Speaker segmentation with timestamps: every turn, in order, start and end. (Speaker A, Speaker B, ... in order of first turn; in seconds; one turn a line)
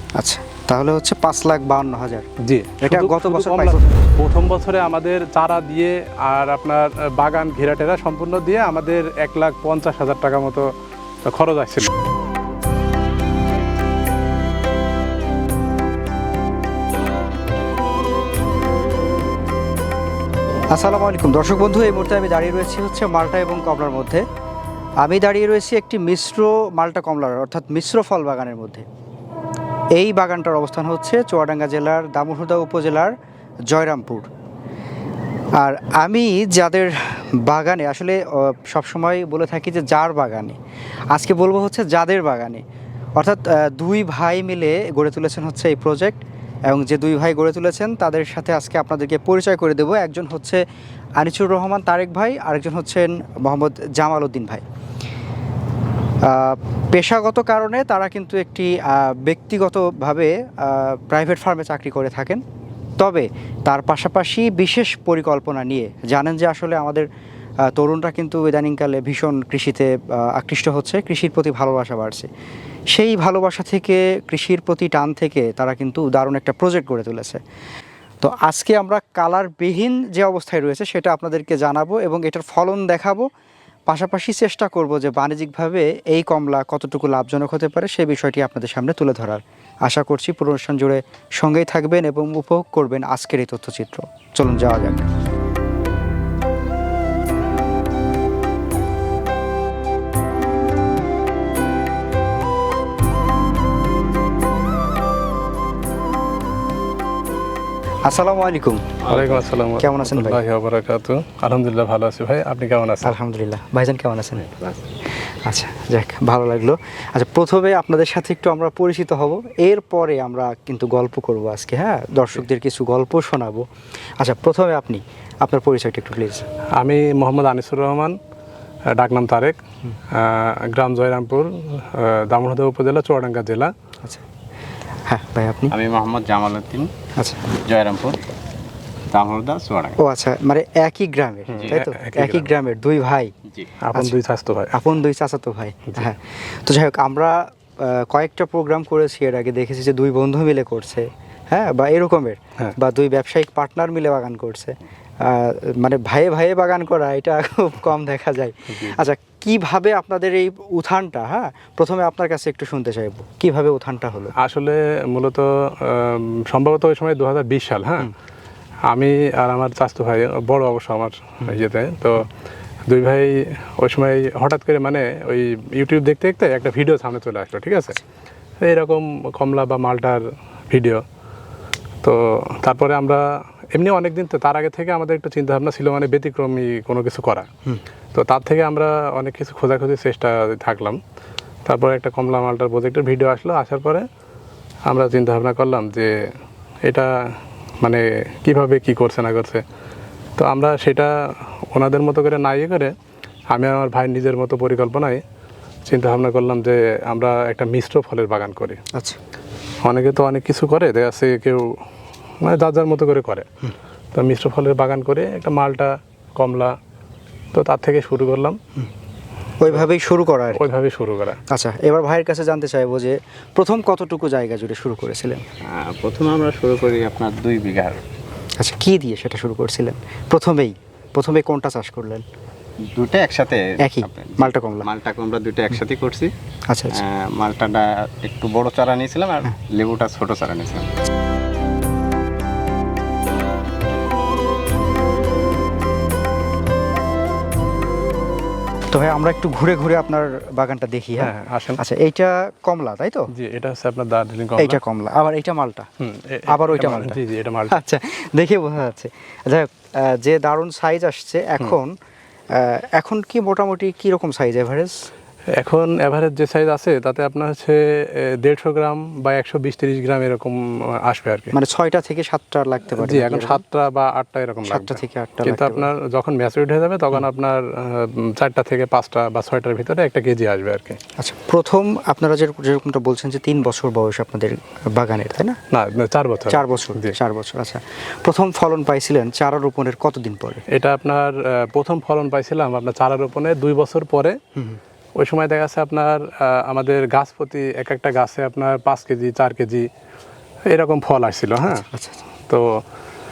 Speaker A: 0.2-2.3
Speaker B: 2.4-10.7
Speaker A: 2.8-3.9
Speaker B: 11.2-11.9
Speaker A: 20.7-24.2
Speaker A: 25.0-28.9
Speaker A: 29.9-33.1
Speaker A: 33.7-34.3
Speaker A: 35.6-40.6
Speaker A: 41.1-42.6
Speaker A: 43.2-50.6
Speaker A: 51.2-54.6
Speaker A: 56.2-62.4
Speaker A: 63.0-67.1
Speaker A: 67.7-72.3
Speaker A: 72.9-77.4
Speaker A: 78.2-83.3
Speaker A: 83.9-95.1
Speaker A: 108.0-109.0
Speaker B: 109.0-113.1
Speaker A: 109.8-110.4
Speaker A: 113.0-114.6
Speaker A: 115.4-123.6
Speaker A: 124.2-126.5
Speaker B: 126.8-128.2
Speaker B: 128.9-129.6
Speaker B: 130.1-133.7
Speaker A: 135.1-135.7
Speaker C: 135.7-136.9
Speaker A: 137.2-137.5
Speaker C: 137.7-138.2
Speaker C: 139.1-140.0
Speaker A: 140.0-143.3
Speaker C: 141.5-141.8
Speaker B: 141.6-142.5
Speaker B: 143.8-144.8
Speaker A: 144.7-164.3
Speaker B: 158.7-159.0
Speaker B: 164.4-168.1
Speaker B: 168.9-172.3
Speaker B: 172.9-178.0
Speaker B: 178.6-181.0
Speaker B: 182.0-187.5
Speaker B: 188.1-191.0
Speaker B: 191.6-194.0
Speaker B: 194.9-196.3
Speaker B: 196.8-197.1
Speaker B: 197.8-199.6
Speaker B: 200.4-202.9
Speaker B: 203.5-205.2
Speaker B: 205.9-208.8
Speaker B: 209.8-211.8
Speaker B: 212.4-213.5
Speaker B: 214.1-216.7
Speaker B: 217.5-218.6
Speaker A: 219.6-220.6
Speaker B: 220.5-221.4
Speaker A: 221.5-225.4
Speaker C: 225.7-228.0
Speaker A: 228.6-232.2
Speaker C: 232.9-236.3
Speaker A: 233.8-234.9
Speaker A: 236.7-237.0
Speaker C: 236.9-240.9
Speaker A: 248.9-253.3
Speaker B: 251.2-251.8
Speaker B: 253.3-254.8
Speaker A: 254.6-255.9
Speaker B: 256.0-257.8
Speaker A: 256.5-261.9
Speaker A: 262.5-265.0
Speaker B: 265.6-271.5
Speaker A: 271.5-273.6
Speaker B: 272.9-281.0
Speaker A: 274.6-275.9
Speaker A: 281.2-285.6
Speaker B: 285.7-287.1
Speaker A: 286.5-290.6
Speaker B: 290.7-294.4
Speaker B: 295.2-299.9
Speaker B: 300.7-301.8
Speaker A: 301.7-302.2
Speaker B: 302.5-302.8